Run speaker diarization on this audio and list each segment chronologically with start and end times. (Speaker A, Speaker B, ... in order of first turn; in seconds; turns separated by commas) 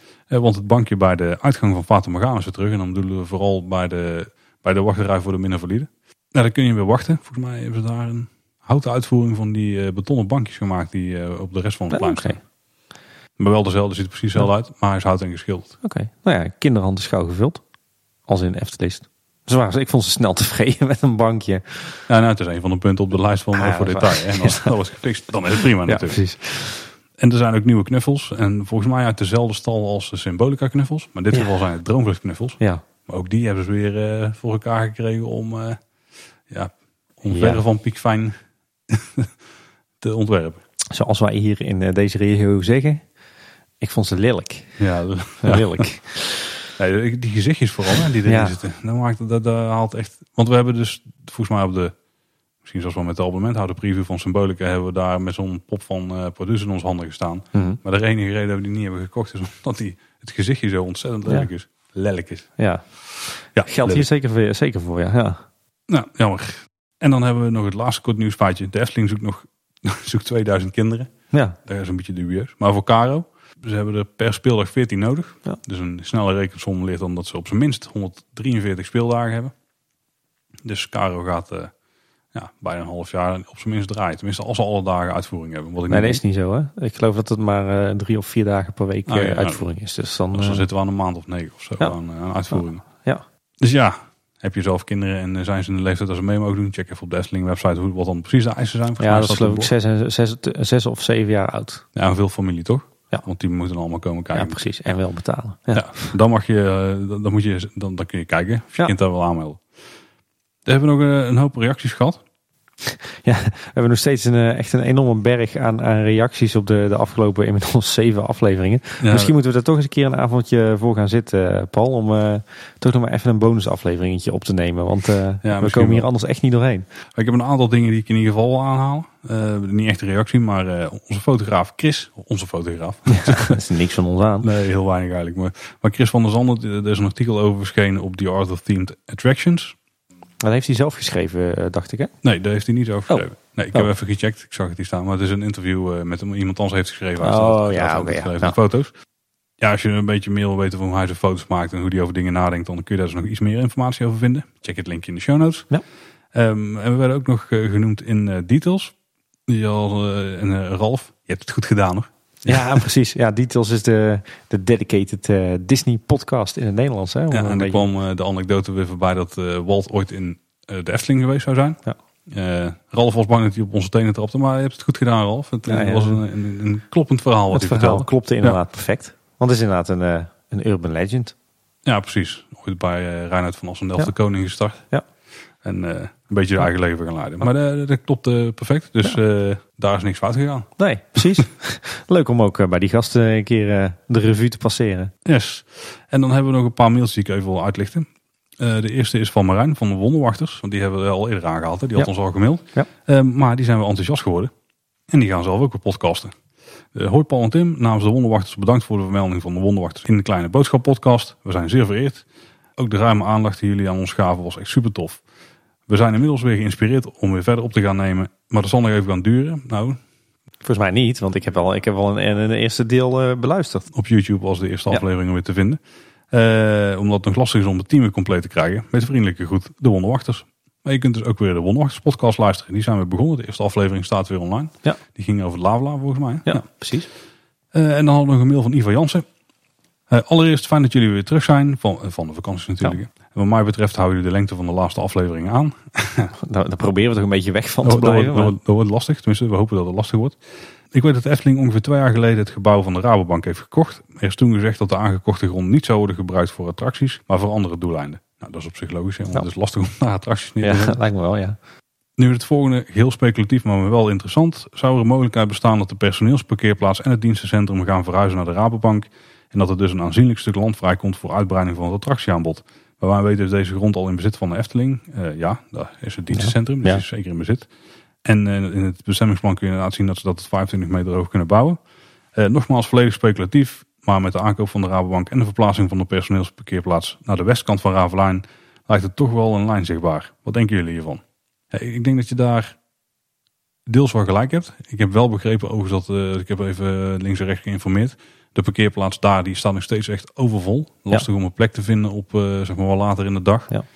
Speaker A: 0.3-12.4, Speaker B: 11.9-12.4, Speaker A: 13.4-15.7, Speaker B: 15.8-17.6, Speaker B: 18.3-22.0, Speaker A: 22.1-26.2, Speaker B: 23.5-24.7, Speaker B: 25.8-26.9, Speaker A: 27.2-35.8, Speaker A: 36.5-38.3, Speaker B: 37.3-37.6, Speaker A: 38.9-39.3, Speaker A: 40.0-40.6, Speaker B: 40.9-43.0, Speaker B: 43.8-44.7, Speaker A: 44.8-45.9, Speaker B: 45.4-46.6, Speaker A: 46.8-51.9, Speaker B: 48.2-48.6, Speaker A: 52.6-62.5, Speaker B: 57.5-57.8, Speaker B: 62.6-62.9, Speaker B: 63.4-65.4, Speaker A: 63.5-64.1, Speaker A: 65.9-71.1, Speaker B: 71.3-71.6, Speaker A: 71.6-79.5, Speaker A: 80.6-81.7, Speaker A: 82.3-86.2, Speaker B: 85.9-90.6, Speaker A: 89.1-89.6, Speaker A: 90.3-92.8, Speaker B: 92.5-93.2, Speaker A: 93.6-99.7, Speaker B: 99.0-101.8, Speaker A: 101.9-104.6, Speaker B: 104.3-106.2, Speaker A: 105.7-109.6, Speaker A: 110.6-112.2, Speaker B: 112.8-126.8, Speaker A: 119.0-119.3, Speaker A: 125.4-126.1, Speaker A: 127.1-133.6, Speaker B: 133.1-134.5, Speaker A: 134.4-139.7, Speaker B: 140.4-142.1, Speaker A: 142.2-148.9, Speaker B: 143.1-143.9, Speaker B: 147.2-148.6, Speaker A: 149.6-155.7, Speaker A: 156.3-158.9, Speaker A: 159.5-162.8, Speaker B: 162.4-167.8, Speaker A: 167.3-178.6, Speaker B: 175.7-176.2, Speaker B: 177.5-181.3, Speaker A: 181.8-184.8, Speaker A: 185.6-190.7, Speaker B: 190.8-195.1, Speaker A: 195.2-204.5, Speaker A: 205.1-206.3, Speaker A: 206.9-212.2, Speaker A: 212.8-215.2, Speaker A: 215.9-220.0, Speaker B: 220.6-223.9, Speaker A: 223.9-225.8, Speaker A: 226.3-236.6, Speaker B: 236.4-237.1, Speaker A: 237.7-239.2, Speaker A: 240.1-246.3, Speaker B: 246.4-248.5, Speaker A: 247.8-250.4, Speaker A: 250.9-261.0, Speaker B: 260.6-261.6, Speaker A: 262.2-277.7, Speaker B: 276.3-277.0, Speaker A: 278.2-281.8, Speaker A: 282.3-292.8, Speaker A: 293.9-303.7